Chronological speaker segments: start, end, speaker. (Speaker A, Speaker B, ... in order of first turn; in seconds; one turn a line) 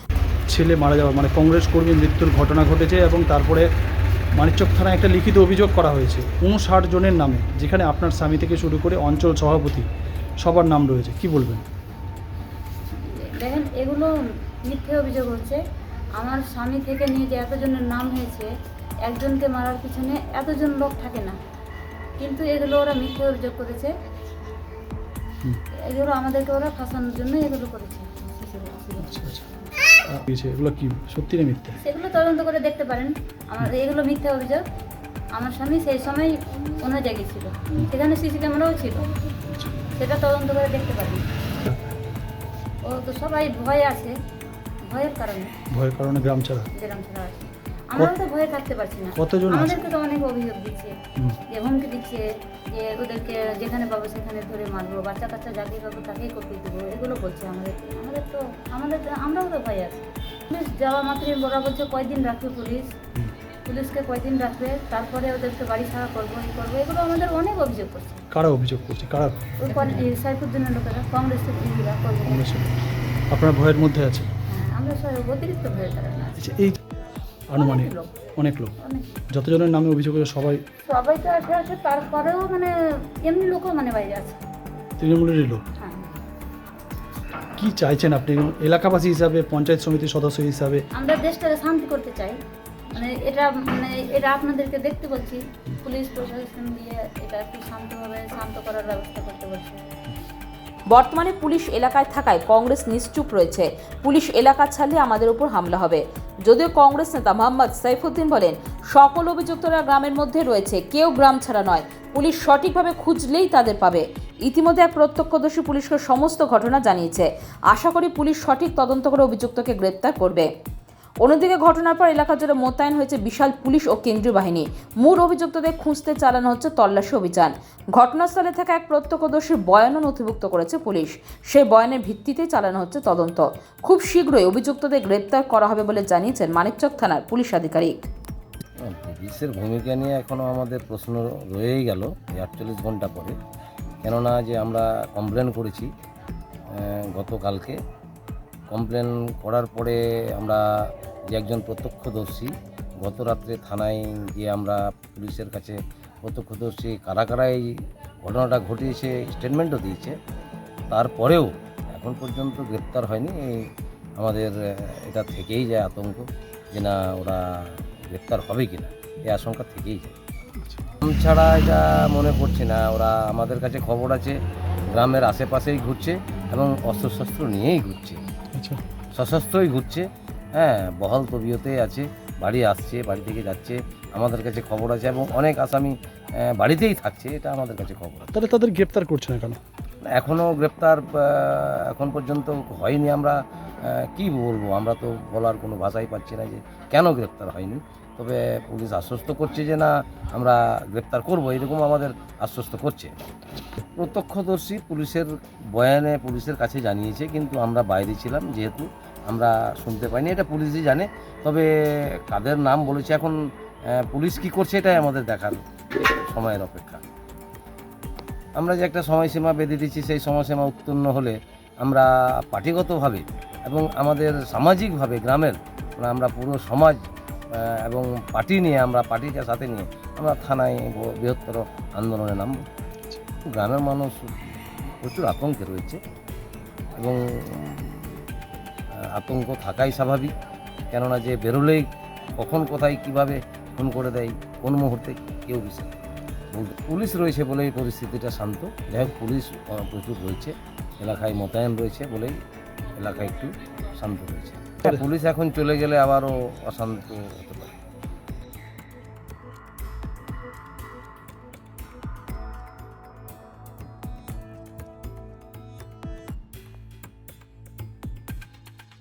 Speaker A: 0.5-3.7
Speaker A: 4.3-9.9
Speaker A: 10.4-11.7
Speaker B: 12.9-14.1
Speaker B: 14.6-15.6
Speaker B: 16.2-18.5
Speaker B: 19.1-21.4
Speaker B: 22.2-23.9
Speaker B: 25.9-29.4
Speaker A: 29.0-29.4
Speaker A: 30.1-31.8
Speaker B: 31.8-34.6
Speaker B: 35.4-39.1
Speaker A: 39.5-39.8
Speaker B: 40.0-41.3
Speaker A: 41.6-41.9
Speaker B: 42.9-44.2
Speaker B: 44.9-45.5
Speaker A: 45.7-46.7
Speaker B: 46.8-51.0
Speaker A: 49.1-49.8
Speaker B: 51.5-62.9
Speaker B: 63.6-68.2
Speaker A: 68.3-69.6
Speaker B: 69.6-72.4
Speaker A: 72.2-72.8
Speaker A: 73.3-74.3
Speaker B: 74.5-76.4
Speaker A: 76.4-76.8
Speaker A: 77.5-78.8
Speaker B: 77.6-78.2
Speaker B: 78.8-79.2
Speaker A: 79.3-80.6
Speaker B: 80.9-84.4
Speaker A: 85.0-85.6
Speaker B: 85.8-86.2
Speaker A: 87.6-90.8
Speaker B: 91.0-92.4
Speaker B: 93.0-99.8
Speaker C: 100.9-120.5
Speaker C: 121.2-138.0
Speaker D: 138.8-143.4
Speaker D: 144.0-145.9
Speaker D: 146.7-147.8
Speaker D: 148.7-150.6
Speaker D: 151.3-157.7
Speaker D: 158.2-160.2
Speaker D: 160.9-163.6
Speaker D: 164.2-170.2
Speaker D: 171.0-174.4
Speaker D: 174.9-178.2
Speaker A: 178.6-178.8
Speaker D: 179.2-188.3
Speaker A: 188.3-189.6
Speaker D: 190.1-203.1
Speaker D: 204.0-213.4
Speaker D: 213.9-217.0
Speaker D: 218.6-227.0
Speaker D: 227.6-232.6
Speaker D: 233.5-236.0
Speaker D: 237.0-238.2
Speaker D: 239.1-240.3
Speaker D: 240.9-241.9
Speaker D: 242.4-245.9
Speaker D: 246.5-252.4
Speaker D: 252.9-257.7